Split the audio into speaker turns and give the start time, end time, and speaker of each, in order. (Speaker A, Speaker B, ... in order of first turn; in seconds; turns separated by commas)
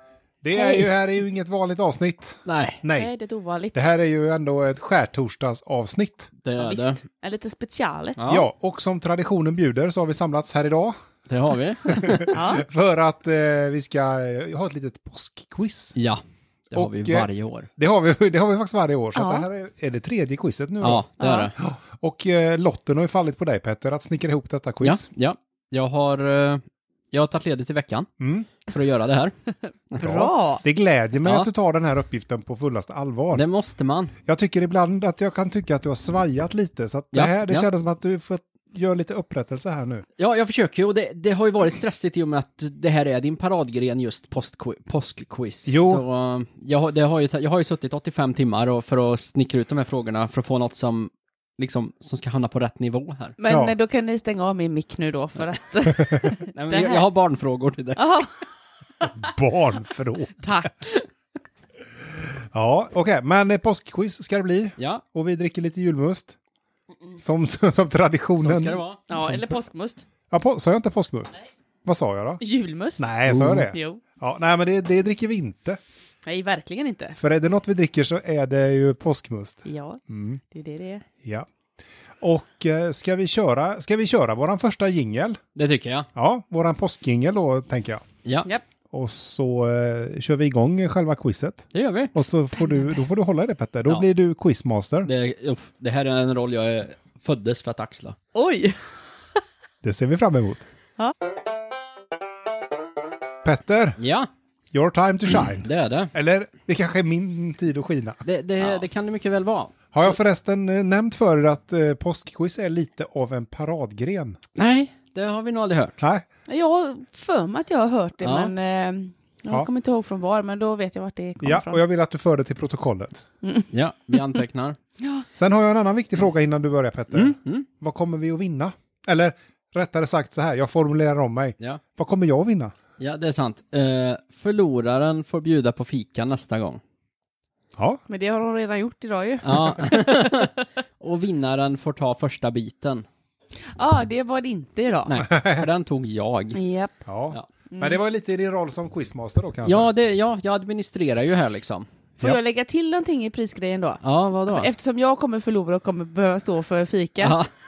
Speaker A: 0.4-3.1, Speaker B: 0.6-0.9, Speaker C: 2.5-2.9, Speaker B: 2.9-3.8, Speaker A: 3.7-6.3, Speaker C: 6.4-7.0, Speaker B: 6.5-8.2, Speaker C: 8.2-8.5, Speaker A: 8.3-10.9, Speaker C: 11.3-12.3, Speaker A: 11.9-16.0, Speaker B: 12.3-12.6, Speaker C: 16.0-17.7, Speaker A: 16.8-25.1, Speaker B: 19.1-19.5, Speaker C: 20.8-21.6, Speaker B: 21.2-21.5, Speaker C: 24.8-28.1, Speaker A: 28.2-28.5, Speaker C: 28.7-29.3, Speaker B: 30.0-30.6, Speaker A: 30.0-33.4, Speaker C: 31.2-31.5, Speaker C: 33.3-34.1, Speaker A: 34.2-40.0, Speaker C: 37.1-37.7, Speaker C: 40.2-53.4, Speaker A: 45.7-46.0, Speaker B: 53.4-57.0, Speaker A: 53.5-53.7, Speaker C: 56.5-58.1, Speaker B: 58.0-58.5, Speaker B: 59.0-59.3, Speaker A: 59.2-60.7, Speaker B: 60.4-61.1, Speaker A: 62.5-66.4, Speaker C: 64.8-65.0, Speaker A: 67.2-69.5, Speaker C: 68.4-69.1, Speaker B: 69.1-70.0, Speaker A: 70.3-72.4, Speaker B: 72.4-74.0, Speaker A: 73.0-75.8, Speaker C: 73.3-73.6, Speaker B: 76.2-77.2, Speaker A: 77.2-80.4, Speaker B: 79.7-81.0, Speaker A: 82.2-85.4, Speaker C: 85.5-86.1, Speaker A: 86.2-88.0, Speaker C: 88.2-88.5, Speaker A: 88.9-95.1, Speaker C: 91.7-92.2, Speaker B: 92.6-93.0, Speaker C: 95.1-98.2, Speaker B: 98.3-98.8, Speaker A: 99.8-100.6, Speaker A: 103.4-104.0, Speaker C: 104.0-104.3, Speaker A: 104.7-108.2, Speaker C: 105.6-106.1, Speaker C: 108.2-110.1, Speaker A: 109.9-114.4, Speaker C: 114.6-115.9, Speaker A: 116.0-116.2, Speaker B: 116.5-121.8, Speaker C: 118.2-118.5, Speaker A: 121.4-123.2, Speaker B: 123.4-124.3, Speaker C: 123.7-124.8, Speaker B: 125.0-125.3, Speaker A: 125.4-132.7, Speaker C: 127.1-127.7, Speaker C: 133.0-136.8, Speaker B: 138.1-140.6, Speaker C: 139.4-143.1, Speaker B: 143.8-145.2, Speaker C: 145.1-146.6, Speaker A: 145.2-145.7, Speaker B: 146.5-147.0, Speaker A: 147.1-149.9, Speaker B: 147.7-148.0, Speaker C: 149.7-151.9, Speaker B: 152.2-157.4, Speaker C: 154.0-154.7, Speaker C: 157.2-157.5